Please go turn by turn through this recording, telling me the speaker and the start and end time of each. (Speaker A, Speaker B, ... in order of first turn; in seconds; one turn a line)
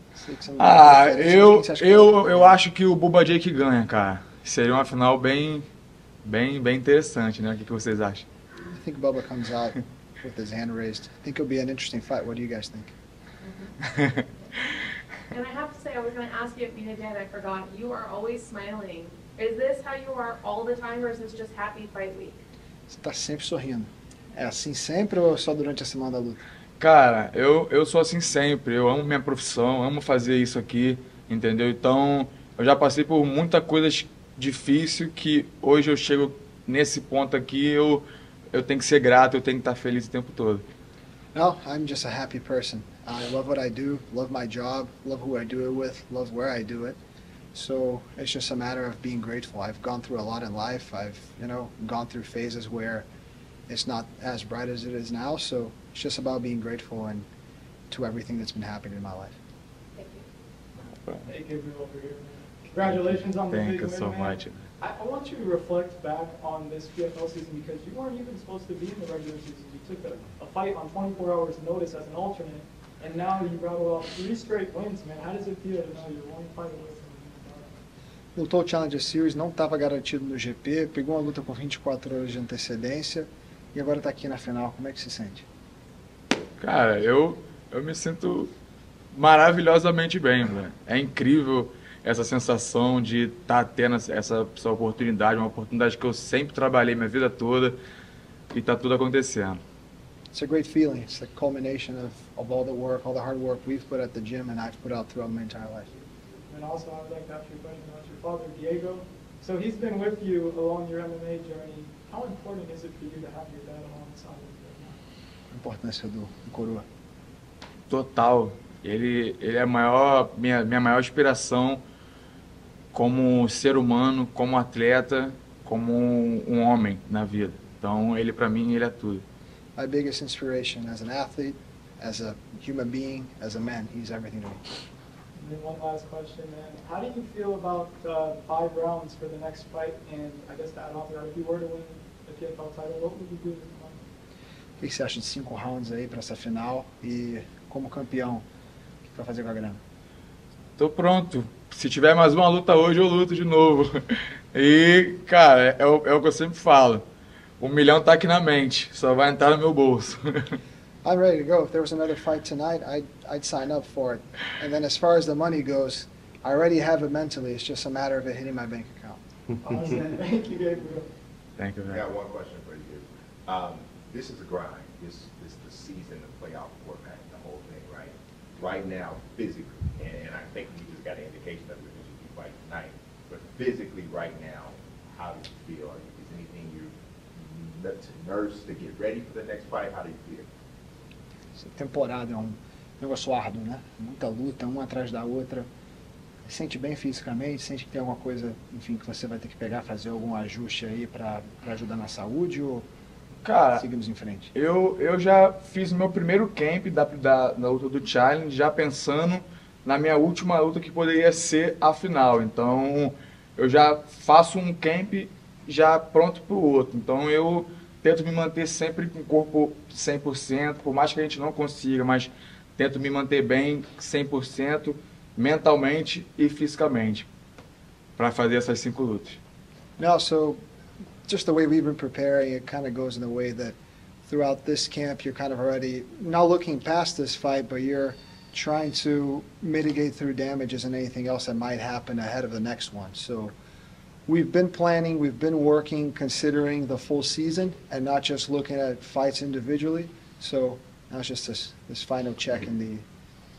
Speaker A: 0.1-2.6
Speaker B: 0.6-5.7
Speaker B: 6.2-8.3
Speaker A: 8.7-12.9
Speaker C: 13.4-13.8
Speaker C: 15.3-22.4
Speaker A: 22.9-26.4
Speaker B: 26.8-40.6
Speaker A: 41.3-47.0
Speaker A: 47.5-53.1
Speaker A: 53.7-57.3
Speaker A: 57.9-59.4
Speaker C: 60.0-60.2
Speaker D: 61.3-77.7
Speaker B: 62.8-64.7
Speaker A: 78.3-85.5
Speaker B: 86.6-88.5
Speaker B: 89.1-97.8
Speaker B: 98.5-99.6
Speaker A: 100.3-105.9
Speaker D: 106.5-115.0
Speaker A: 115.5-116.8
Speaker B: 117.9-121.8
Speaker B: 122.9-129.2
Speaker A: 129.8-134.6
Speaker D: 135.3-144.0
Speaker A: 144.8-148.4
Speaker A: 149.1-149.8
Speaker B: 150.8-157.0
Speaker B: 157.6-160.6
Speaker A: 161.0-169.2
Speaker D: 169.6-171.1
Speaker B: 171.6-172.0
Speaker E: 171.9-190.5
Speaker A: 191.6-195.7
Speaker A: 196.4-202.9
Speaker B: 203.4-203.9
Speaker A: 203.7-204.5
Speaker B: 204.5-227.3
Speaker B: 228.2-229.4
Speaker A: 230.0-230.6
Speaker A: 231.3-243.5
Speaker A: 244.3-253.0